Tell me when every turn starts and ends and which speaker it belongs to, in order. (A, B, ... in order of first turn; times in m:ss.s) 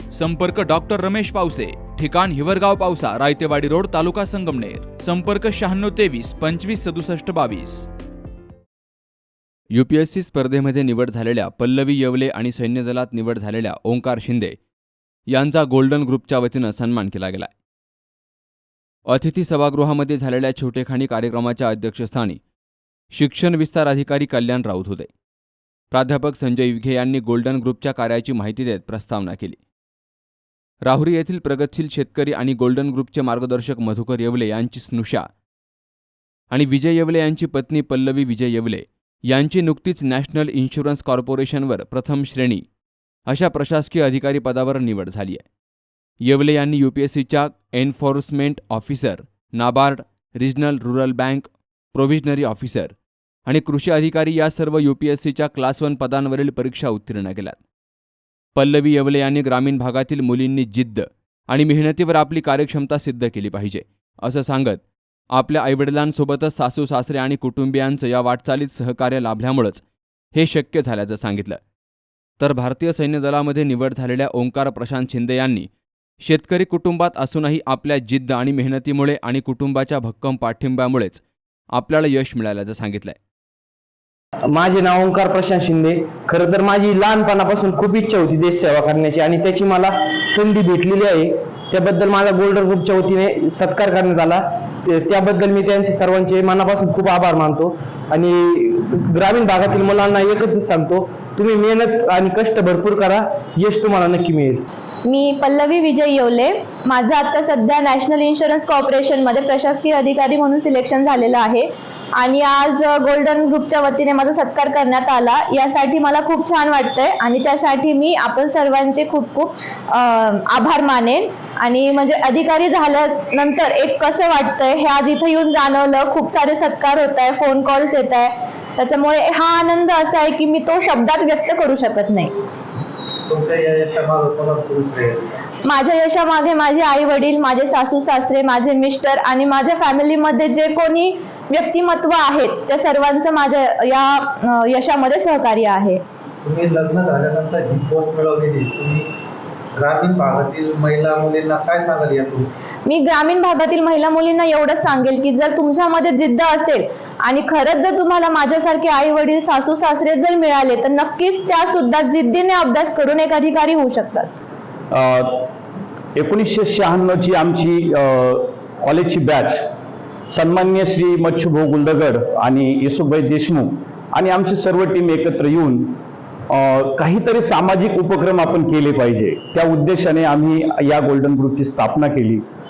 0:00.1-0:07.9 A
0:09.7-0:14.6 A
0:15.3-0:17.5 A
0:19.1-0:22.4 A
0:23.1-0:25.1 A
0:25.9-0:29.6 A
0:30.8-0:35.2 A
0:36.5-0:42.6 A
0:43.3-0:45.4 A
0:46.3-0:52.9 A
0:53.4-0:57.6 A
0:58.6-1:04.8 A
1:05.4-1:09.8 A
1:10.3-1:11.6 A
1:12.4-1:15.7 A
1:16.2-1:21.2 A
1:21.8-1:23.2 A
1:24.5-1:44.6 B
1:45.0-1:51.7 C
1:52.2-2:12.4 C
2:13.3-2:15.4 D
2:15.6-2:26.0 C
2:26.4-2:29.1 D
2:29.8-2:32.5 D
2:32.8-2:44.3 C
2:44.9-2:45.5 E
2:46.2-2:49.6 E
2:50.3-2:55.9 E
2:56.5-3:02.4 E